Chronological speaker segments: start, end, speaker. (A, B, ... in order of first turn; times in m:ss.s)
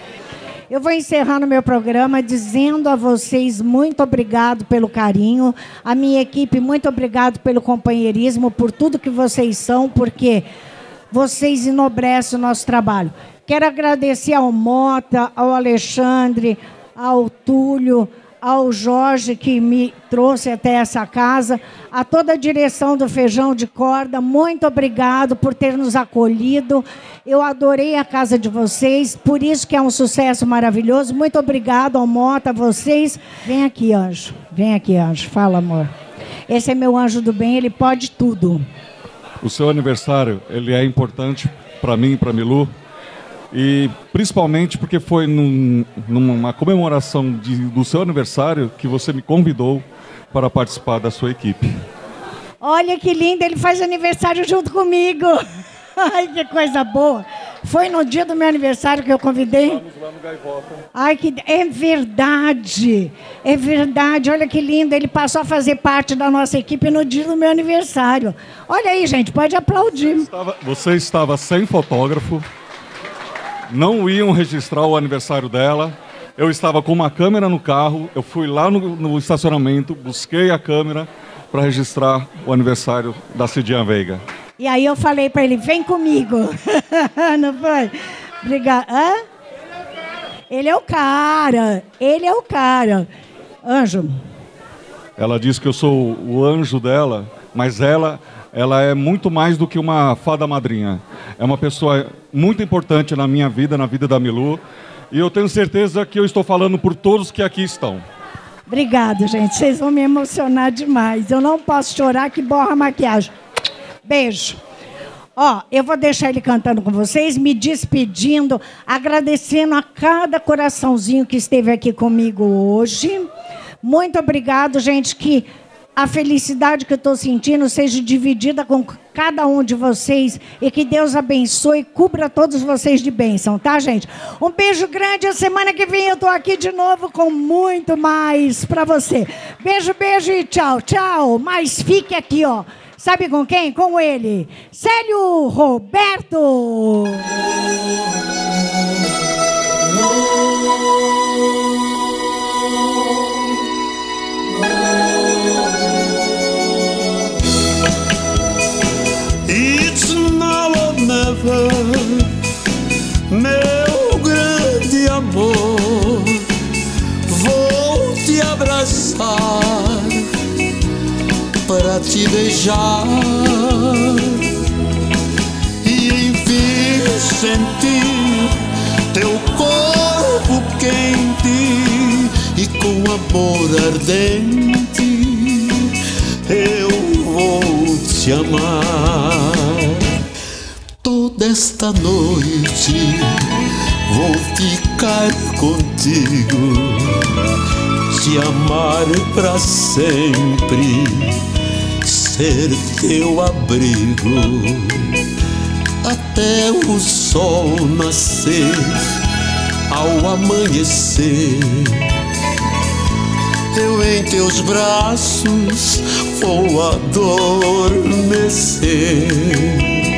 0:00.7-0:10.5 A
0:11.1-0:35.9 A
0:36.5-0:38.6 A
0:39.4-0:42.7 B
0:43.5-0:51.7 B
0:52.6-0:55.4 A
0:56.0-0:59.8 A
0:59.8-1:00.6 B
1:00.9-1:10.3 A
1:10.2-1:12.4 B
1:13.7-1:24.2 B
1:24.6-1:29.2 A
1:30.5-1:33.1 A
1:33.6-1:34.2 A
1:35.2-1:44.6 B
1:45.1-1:48.0 B
1:48.7-1:53.3 A
1:54.0-1:54.6 A
1:55.4-2:03.3 A
2:03.8-2:27.2 A
2:39.4-2:42.3 C
2:43.3-2:46.4 C
2:47.3-2:50.2 C
2:51.6-2:54.4 C
2:55.8-2:58.5 C
2:59.1-3:05.9 C
3:06.5-3:09.8 C
3:11.0-3:13.4 C
3:14.1-3:17.2 C
3:18.1-3:21.4 C
3:22.0-3:25.0 C
3:26.0-3:29.0 C
3:29.9-3:32.0 C
3:33.7-3:39.9 C